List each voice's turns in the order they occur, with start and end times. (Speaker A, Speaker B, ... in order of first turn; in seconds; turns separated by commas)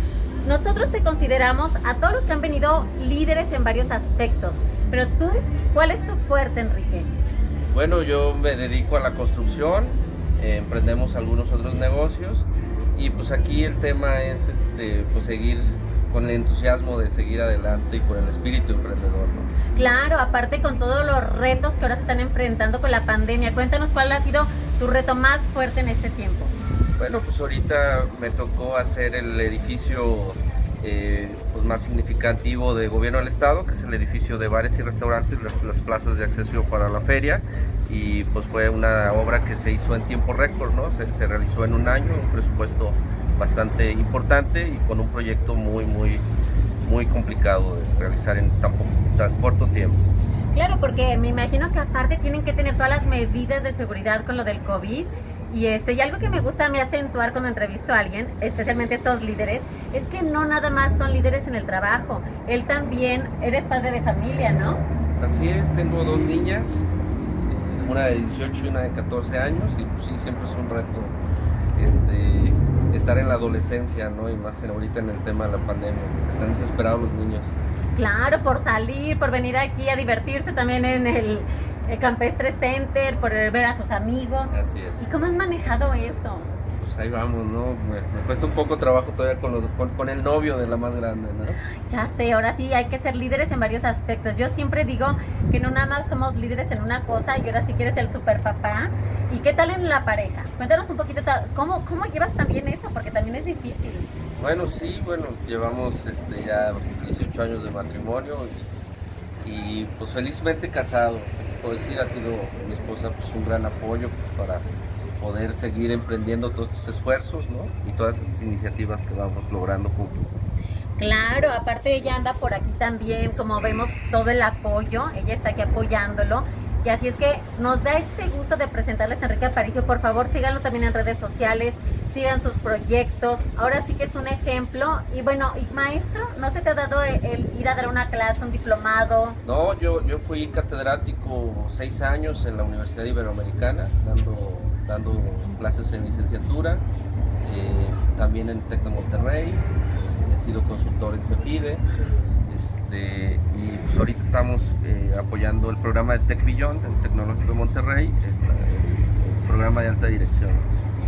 Speaker A: 0.4-7.1, Speaker B: 7.7-19.5, Speaker A: 19.7-26.6, Speaker B: 27.0-46.3, Speaker B: 46.8-50.0, Speaker A: 50.5-64.8, Speaker B: 65.2-71.2, Speaker B: 71.8-77.5, Speaker A: 78.0-86.5, Speaker B: 84.5-85.1, Speaker B: 86.8-91.6, Speaker A: 91.9-104.2, Speaker B: 104.4-108.7, Speaker B: 109.4-114.7, Speaker B: 115.2-120.3, Speaker A: 121.0-139.4, Speaker B: 139.4-146.8, Speaker B: 147.4-149.6, Speaker B: 150.2-151.8, Speaker B: 152.5-160.7